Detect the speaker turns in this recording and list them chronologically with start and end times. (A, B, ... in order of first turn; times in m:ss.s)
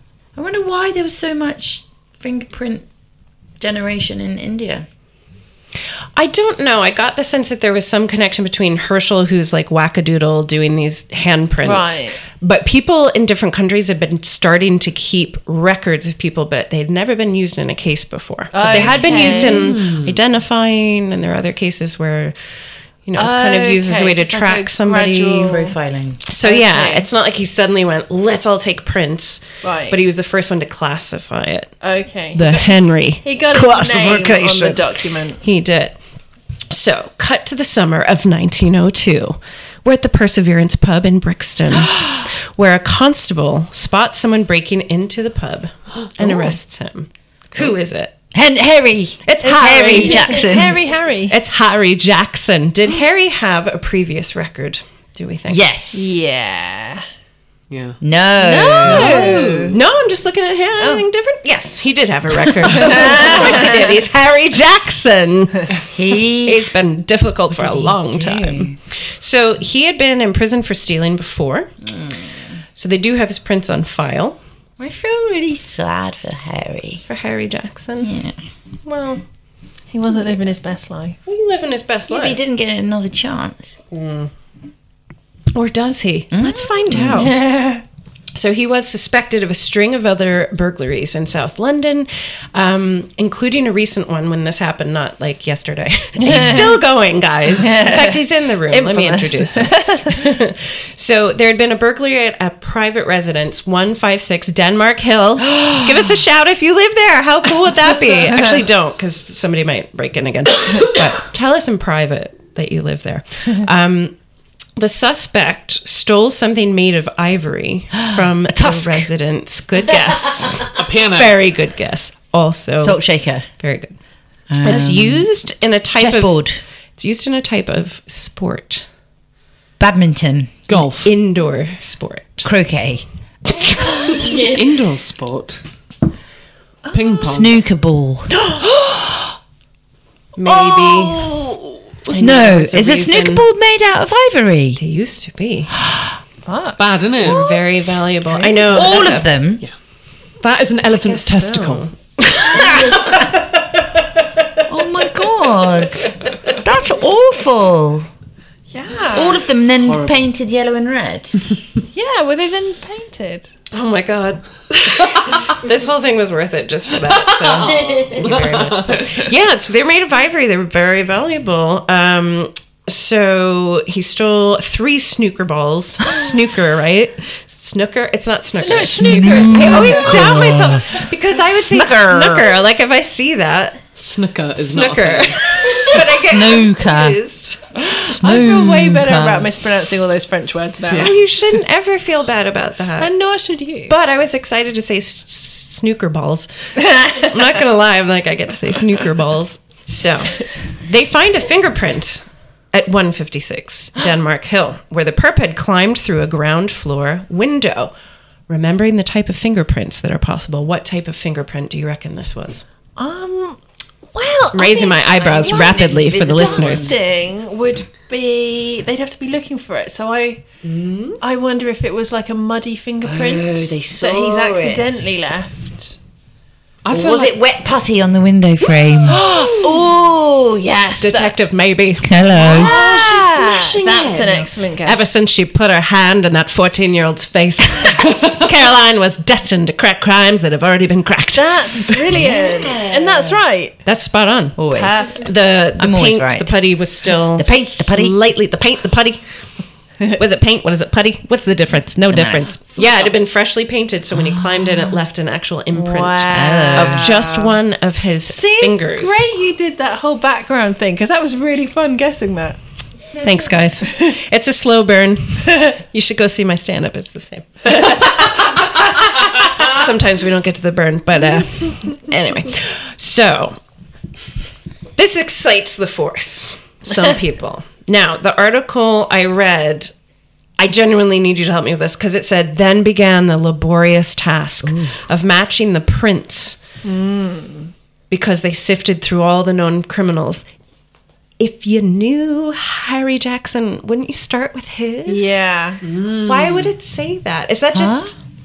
0:00.4-0:02.8 A
0:03.6-0:04.9 A
0:06.2-0:22.3 B
0:11.6-0:12.2 C
0:18.5-0:19.7 C
0:18.6-0:19.6 A
0:19.5-0:20.2 D
0:23.0-0:25.6 B
0:23.2-0:23.8 A
0:23.3-0:25.7 C
0:24.6-0:26.2 A
0:26.2-0:31.7 B
0:26.4-0:27.1 C
0:29.6-0:30.0 C
0:31.8-0:32.6 C
0:32.3-0:36.0 B
0:33.2-0:35.4 C
0:36.7-0:48.1 B
0:41.7-0:42.2 A
0:46.2-0:46.5 A
0:48.3-0:50.8 A
0:49.2-0:50.4 B
0:49.4-0:51.4 C
0:51.3-0:55.6 B
0:55.5-0:56.2 A
0:55.9-0:57.0 C
0:57.7-0:58.0 D
0:58.0-0:59.4 A
0:58.4-0:59.8 C
0:58.8-0:59.8 D
0:59.7-1:05.8 B
1:00.8-1:01.0 C
1:02.7-1:03.7 C
1:05.9-1:06.7 A
1:06.4-1:11.7 B
1:07.5-1:08.8 A
1:11.8-1:12.6 A
1:12.8-1:14.4 B
1:14.8-1:17.0 A
1:17.1-1:18.2 B
1:18.0-1:18.4 A
1:18.8-1:19.2 B
1:19.9-1:21.2 C
1:21.2-1:22.4 B
1:22.1-1:23.7 A
1:23.9-1:24.3 B
1:25.5-1:27.4 B
1:26.3-1:27.2 A
1:27.2-1:27.8 C
1:28.3-1:54.2 B
1:36.2-1:36.8 C
1:37.5-1:40.2 C
1:54.8-2:03.0 B
1:58.0-1:59.1 A
2:00.7-2:01.4 D
2:02.8-2:03.5 A
2:03.6-2:03.9 B
2:04.5-2:05.3 A
2:04.6-2:06.4 B
2:06.0-2:06.6 A
2:07.0-2:08.9 B
2:09.8-2:10.8 A
2:10.7-2:11.1 D
2:11.0-2:12.5 B
2:12.4-2:13.1 A
2:13.9-2:14.2 B
2:14.2-2:15.6 D
2:16.8-2:17.3 C
2:16.9-2:17.6 D
2:17.2-2:19.0 A
2:20.4-2:21.2 B
2:20.7-2:21.8 C
2:22.0-2:23.4 B
2:22.2-2:24.8 A
2:24.8-2:25.7 B
2:25.8-2:26.2 A
2:26.4-2:27.4 C
2:26.8-2:27.4 D
2:27.2-2:29.3 B
2:28.3-2:29.6 A
2:30.4-2:32.7 D
2:31.0-2:31.9 B
2:32.8-2:33.1 A
2:34.6-2:38.1 A
2:38.7-2:39.4 C
2:39.1-2:41.4 A
2:39.8-2:40.2 D
2:41.9-2:43.5 C
2:43.7-3:03.8 B
2:47.4-2:49.2 D
2:58.5-3:00.5 C
2:58.6-3:02.6 A
3:04.0-3:05.7 D
3:04.6-3:07.8 B
3:05.9-3:07.2 A
3:07.7-3:09.5 A
3:08.0-3:11.2 C
3:10.9-3:13.1 B
3:13.0-3:13.9 C
3:13.9-3:27.9 B
3:16.9-3:17.3 C
3:28.5-3:32.6 B
3:33.0-3:40.5 C
3:34.5-3:36.9 B
3:35.4-3:37.0 A
3:40.6-3:41.2 B
3:41.2-3:46.0 C
3:43.0-3:45.1 A
3:46.8-3:47.4 D
3:46.9-3:49.5 A
3:48.8-3:51.4 C
3:51.0-4:02.0 B
3:52.0-3:52.7 A
3:52.4-3:55.1 C
4:01.3-4:03.8 C
4:02.1-4:03.4 A
4:03.8-4:09.2 B
4:04.6-4:06.8 A
4:04.7-4:05.2 C
4:07.3-4:08.2 A
4:10.1-4:19.3 B
4:12.1-4:12.6 A
4:14.1-4:15.0 A
4:15.7-4:17.6 C
4:16.3-4:17.1 A
4:18.2-4:22.6 C
4:23.2-4:28.7 B
4:29.3-4:33.6 B
4:35.0-4:39.9 B
4:40.6-4:46.6 B
4:44.6-4:45.0 A
4:46.8-4:47.7 C
4:48.1-4:50.5 B
4:51.4-4:55.4 B
4:55.1-4:55.8 C
4:55.8-4:56.7 D
4:56.2-4:58.2 B
4:57.7-4:58.2 A